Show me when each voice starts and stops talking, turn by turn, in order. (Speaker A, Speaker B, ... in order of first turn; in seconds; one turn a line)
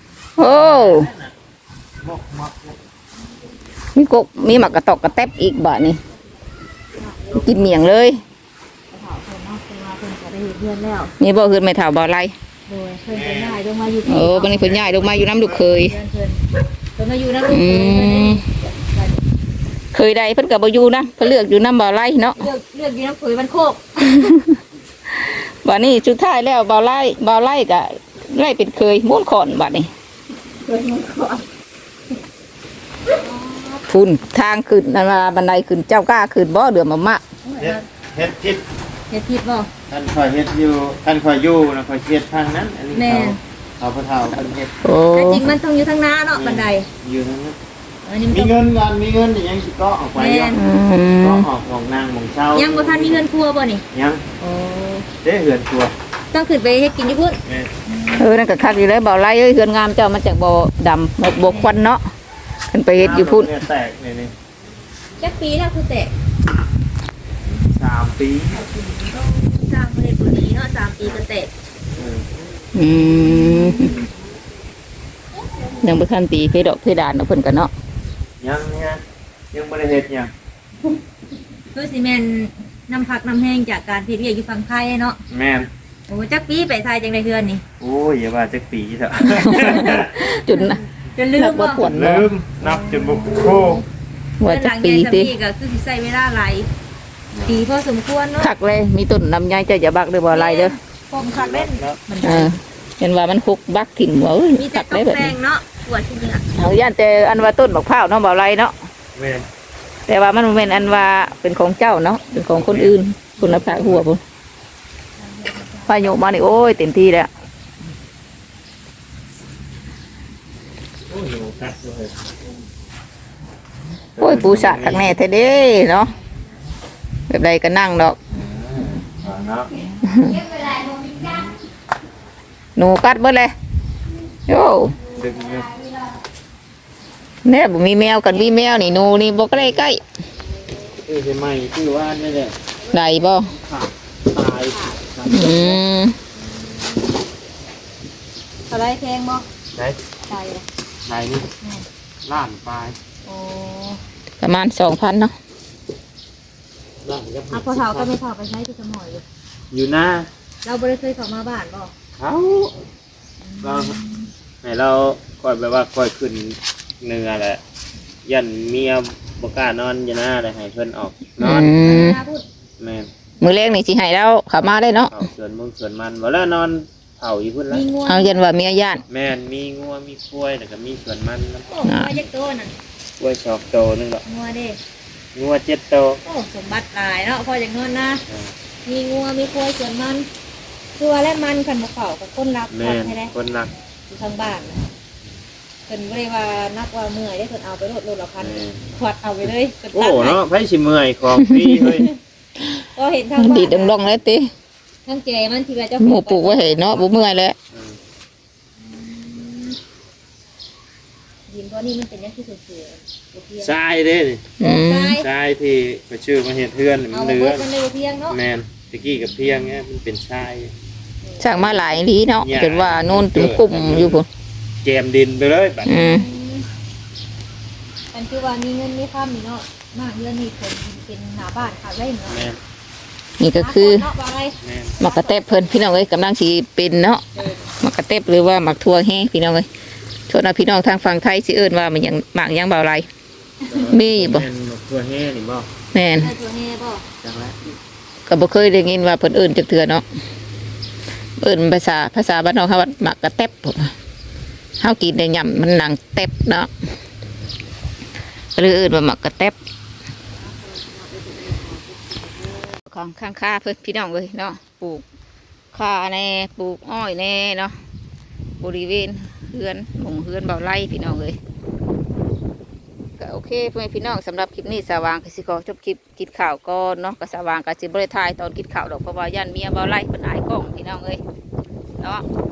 Speaker A: 0.4-1.1
Speaker B: 0.4-1.3
Speaker B: 2.0-2.8
Speaker A: 4.0-6.0
Speaker C: 7.0-7.4
Speaker A: 7.4-8.2
Speaker C: 8.9-11.1
Speaker A: 11.2-12.3
Speaker C: 12.7-14.8
Speaker B: 13.1-13.6
Speaker A: 14.0-15.9
Speaker B: 14.6-15.6
Speaker C: 15.7-16.4
Speaker C: 16.9-19.2
Speaker A: 17.4-18.4
Speaker A: 19.9-22.5
Speaker C: 22.4-24.1
Speaker A: 25.2-29.9
Speaker C: 30.6-31.4
Speaker C: 33.1-33.9
Speaker A: 33.9-37.2
Speaker C: 37.4-37.8
Speaker B: 37.6-38.6
Speaker C: 39.1-39.7
Speaker B: 39.9-44.7
Speaker C: 42.9-43.4
Speaker A: 44.8-45.4
Speaker C: 45.1-46.9
Speaker B: 46.3-47.5
Speaker C: 48.0-48.5
Speaker B: 48.3-50.6
Speaker C: 50.1-50.6
Speaker A: 50.5-51.5
Speaker B: 51.2-53.2
Speaker C: 52.5-53.8
Speaker B: 53.9-54.2
Speaker C: 54.4-55.1
Speaker B: 55.2-55.9
Speaker C: 56.3-58.4
Speaker B: 57.4-57.7
Speaker A: 58.1-62.0
Speaker C: 61.4-61.8
Speaker A: 62.7-63.5
Speaker B: 63.0-64.3
Speaker C: 65.2-66.1
Speaker B: 67.5-68.6
Speaker C: 68.5-71.5
Speaker B: 71.9-72.3
Speaker A: 72.7-73.9
Speaker C: 73.4-73.9
Speaker A: 75.8-77.7
Speaker B: 78.4-80.3
Speaker C: 81.7-85.2
Speaker B: 85.3-85.7
Speaker C: 86.1-87.6
Speaker B: 87.8-90.1
Speaker A: 89.3-90.8
Speaker C: 90.1-91.9
Speaker A: 91.3-92.3
Speaker B: 91.8-93.8
Speaker C: 92.6-93.8
Speaker A: 94.4-95.3
Speaker C: 94.4-96.7
Speaker B: 97.3-97.7
Speaker C: 97.5-98.5
Speaker A: 98.4-100.7
Speaker C: 100.3-102.5
Speaker B: 101.3-102.0
Speaker A: 102.2-105.3
Speaker C: 104.5-106.4
Speaker A: 106.5-108.7
Speaker B: 109.2-109.5
Speaker A: 110.1-114.2
Speaker B: 112.5-114.0
Speaker C: 115.2-116.2
Speaker A: 115.9-117.3
Speaker B: 121.1-122.1
Speaker B: 124.2-125.2
Speaker A: 124.2-126.1
Speaker A: 127.3-128.2
Speaker B: 128.3-129.7
Speaker A: 130.0-130.4
Speaker A: 132.8-133.5
Speaker A: 134.5-135.0
Speaker B: 135.1-135.7
Speaker A: 137.4-140.0
Speaker B: 141.1-142.5
Speaker A: 142.9-143.5
Speaker B: 143.4-145.8
Speaker C: 144.7-144.9
Speaker A: 145.3-146.2
Speaker C: 146.4-147.1
Speaker C: 148.7-149.4
Speaker B: 149.7-150.0
Speaker C: 150.3-150.6
Speaker B: 151.1-151.5
Speaker B: 152.2-153.0
Speaker C: 153.2-154.0
Speaker A: 154.4-155.3
Speaker B: 157.0-158.1
Speaker C: 157.5-159.2
Speaker B: 159.7-160.3
Speaker C: 160.6-161.9
Speaker B: 162.2-162.8
Speaker C: 163.4-164.3
Speaker B: 163.6-163.9
Speaker B: 164.6-167.6
Speaker B: 168.2-172.0
Speaker A: 171.4-172.2
Speaker C: 171.7-172.4
Speaker B: 172.8-173.1
Speaker A: 173.4-175.1
Speaker B: 175.1-177.9
Speaker C: 177.7-178.4
Speaker A: 178.1-179.0
Speaker B: 179.1-181.7
Speaker C: 181.7-182.7
Speaker A: 181.8-182.2
Speaker B: 183.2-184.2
Speaker C: 184.2-184.8
Speaker B: 185.3-186.2
Speaker C: 186.2-188.2
Speaker C: 188.8-190.3
Speaker C: 191.0-193.3
Speaker B: 192.7-193.7
Speaker C: 194.1-194.8
Speaker C: 195.9-200.4
Speaker B: 198.4-198.8
Speaker B: 199.4-202.1
Speaker A: 201.5-201.9
Speaker C: 202.9-204.1
Speaker A: 203.4-204.5
Speaker C: 205.1-207.4
Speaker A: 206.0-207.5
Speaker B: 207.7-208.0
Speaker C: 208.8-209.8
Speaker C: 211.5-213.7
Speaker B: 213.6-214.5
Speaker A: 214.6-215.1
Speaker C: 214.6-215.3
Speaker B: 215.2-217.6
Speaker C: 217.1-218.4
Speaker B: 218.3-220.7
Speaker C: 221.2-221.5
Speaker A: 221.4-224.3
Speaker B: 221.8-224.2
Speaker B: 224.8-225.9
Speaker A: 225.8-226.2
Speaker C: 225.9-226.7
Speaker C: 228.1-232.5
Speaker B: 232.3-232.6
Speaker A: 233.4-234.1
Speaker C: 233.6-235.6
Speaker B: 234.6-234.9
Speaker A: 235.0-237.2
Speaker C: 237.3-237.7
Speaker A: 237.8-239.7
Speaker A: 240.3-243.1
Speaker B: 243.7-245.7
Speaker A: 243.9-244.5
Speaker A: 245.9-246.3
Speaker C: 246.1-247.0
Speaker B: 247.2-247.6
Speaker A: 248.3-250.0
Speaker A: 251.4-253.9
Speaker A: 254.8-256.7
Speaker A: 258.6-259.5
Speaker C: 260.4-262.7
Speaker A: 262.9-265.0
Speaker A: 265.7-267.7
Speaker A: 268.6-271.4
Speaker A: 273.2-281.2